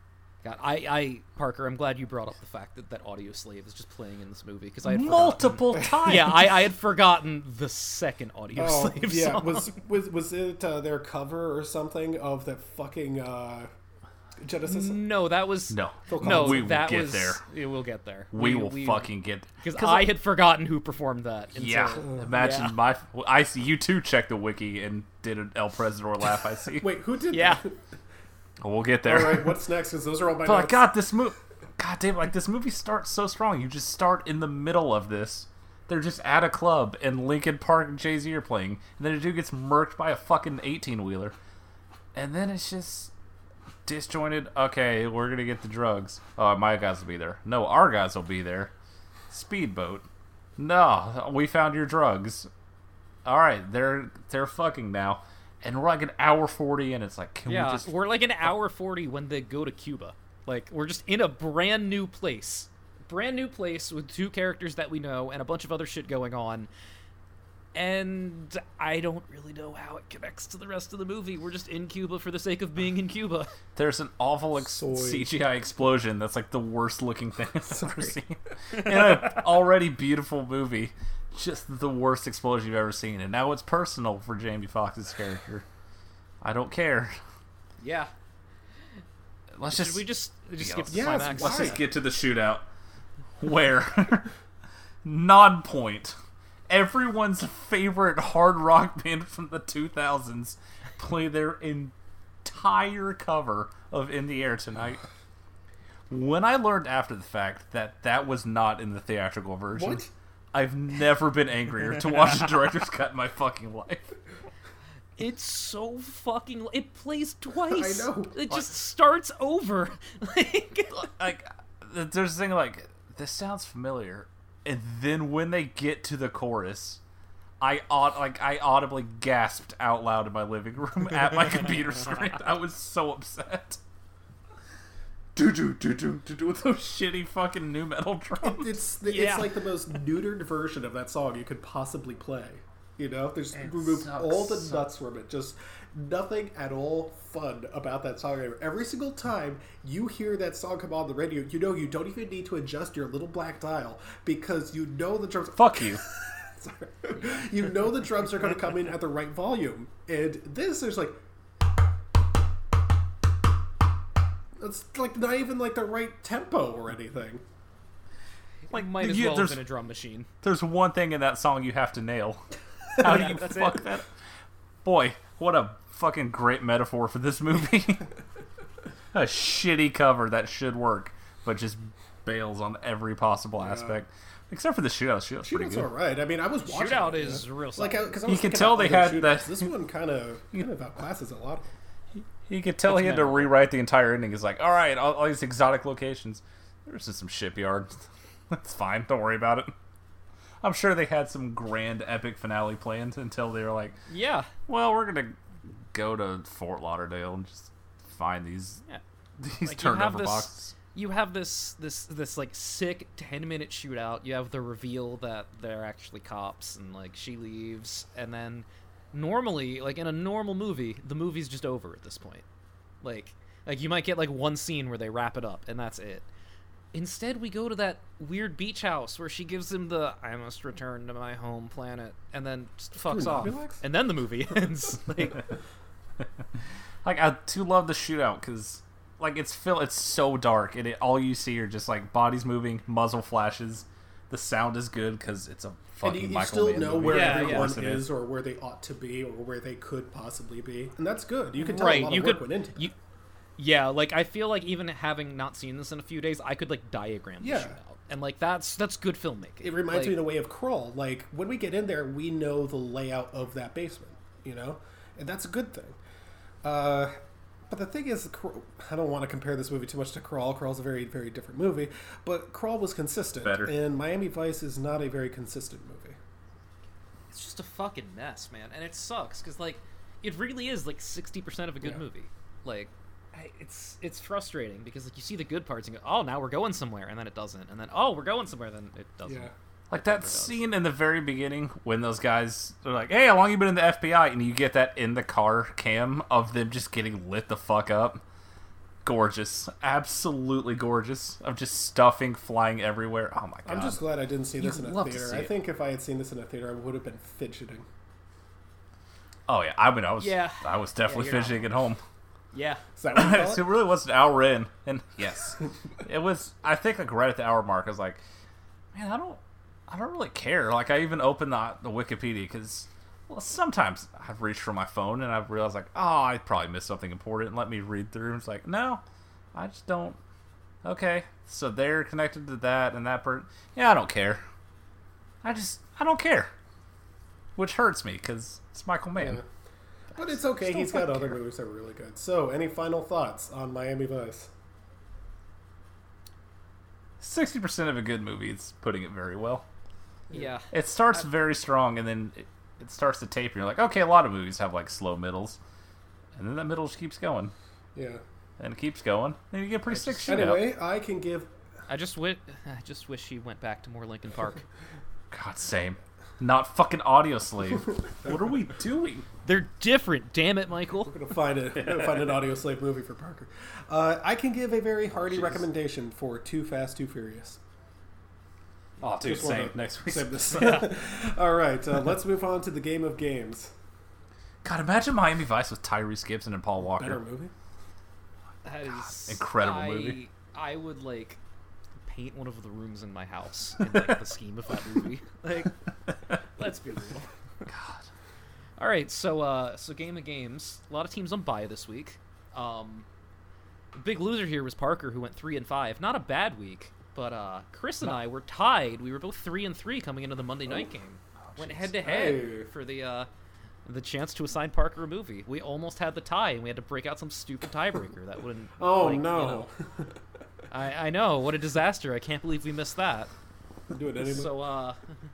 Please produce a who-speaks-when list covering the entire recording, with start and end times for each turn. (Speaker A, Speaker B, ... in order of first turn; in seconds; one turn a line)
Speaker A: 0.4-9.7
Speaker B: 4.8-6.5
Speaker C: 8.6-13.7
Speaker C: 14.4-15.1
Speaker A: 14.6-19.1
Speaker B: 15.7-17.4
Speaker C: 16.1-16.8
Speaker B: 18.3-20.1
Speaker A: 19.6-22.8
Speaker B: 21.5-26.9
Speaker C: 22.0-22.3
Speaker C: 26.8-27.8
Speaker A: 27.3-27.6
Speaker B: 28.6-29.6
Speaker C: 29.1-30.8
Speaker B: 30.4-41.4
Speaker B: 42.1-43.1
Speaker B: 43.9-48.7
Speaker B: 49.3-50.1
Speaker B: 50.6-52.5
Speaker B: 53.2-57.9
Speaker A: 57.5-66.7
Speaker A: 67.8-73.5
Speaker B: 73.8-85.7
Speaker C: 74.6-75.3
Speaker C: 77.7-78.2
Speaker A: 78.7-79.3
Speaker B: 86.4-87.2
Speaker A: 87.8-88.1
Speaker B: 89.6-90.0
Speaker A: 89.7-91.8
Speaker B: 90.6-92.6
Speaker C: 90.9-91.8
Speaker B: 93.4-94.3
Speaker B: 95.0-96.2
Speaker B: 96.7-101.9
Speaker B: 102.4-105.0
Speaker B: 106.1-114.2
Speaker C: 109.7-110.1
Speaker A: 115.2-121.1
Speaker C: 117.6-118.4
Speaker B: 120.9-127.0
Speaker B: 127.6-133.8
Speaker B: 135.4-138.7
Speaker C: 138.4-161.2
Speaker A: 139.1-139.5
Speaker B: 143.5-144.9
Speaker B: 155.6-156.0
Speaker C: 164.6-167.4
Speaker A: 168.7-170.3
Speaker B: 168.7-169.6
Speaker B: 170.4-174.1
Speaker A: 173.0-173.9
Speaker B: 174.8-178.1
Speaker B: 179.1-185.9
Speaker C: 183.6-184.0
Speaker C: 185.4-191.7
Speaker A: 186.7-188.1
Speaker B: 188.3-189.7
Speaker B: 192.5-199.7
Speaker A: 192.9-193.5
Speaker B: 200.6-203.9
Speaker A: 204.1-204.5
Speaker B: 204.7-205.4
Speaker B: 205.9-208.8
Speaker B: 209.4-210.7
Speaker A: 209.7-222.4
Speaker A: 223.0-226.3
Speaker A: 226.9-235.4
Speaker C: 233.0-233.8
Speaker B: 237.0-248.1
Speaker C: 246.0-252.9
Speaker A: 247.1-247.7
Speaker A: 251.6-252.9
Speaker A: 253.6-260.2
Speaker C: 257.4-257.8
Speaker C: 259.6-266.0
Speaker C: 266.6-267.2
Speaker C: 267.7-276.2
Speaker B: 273.4-273.8
Speaker A: 277.3-290.6
Speaker C: 289.2-289.5
Speaker B: 289.9-298.2
Speaker B: 299.0-304.0
Speaker C: 303.6-307.9
Speaker B: 304.6-305.5
Speaker B: 309.5-312.0
Speaker A: 310.2-311.7
Speaker A: 312.5-312.8
Speaker C: 313.0-313.7
Speaker B: 313.1-318.2
Speaker B: 318.9-329.0
Speaker B: 329.5-330.2
Speaker B: 330.8-334.4
Speaker B: 335.4-336.5
Speaker B: 337.6-339.4
Speaker C: 339.2-339.4
Speaker C: 340.1-344.5
Speaker B: 340.2-341.4
Speaker B: 347.2-349.7
Speaker A: 350.3-351.2
Speaker B: 350.7-355.6
Speaker B: 356.4-357.5
Speaker C: 357.9-358.2
Speaker B: 358.6-360.7
Speaker C: 360.2-361.5
Speaker A: 361.9-364.6
Speaker B: 365.3-369.3
Speaker A: 369.4-371.1
Speaker C: 371.1-377.6
Speaker B: 371.8-372.2
Speaker B: 375.2-375.6
Speaker B: 379.0-381.0
Speaker C: 379.2-383.7
Speaker B: 384.6-387.2
Speaker C: 386.8-387.5
Speaker A: 388.6-391.4
Speaker B: 388.9-390.2
Speaker A: 392.1-395.8
Speaker A: 396.6-397.3
Speaker B: 397.7-398.1
Speaker A: 398.8-403.1
Speaker A: 403.9-413.3
Speaker B: 411.4-411.9
Speaker C: 412.0-412.7
Speaker A: 413.9-419.7
Speaker C: 418.8-420.2
Speaker A: 420.7-423.3
Speaker C: 423.9-424.5
Speaker A: 424.2-425.0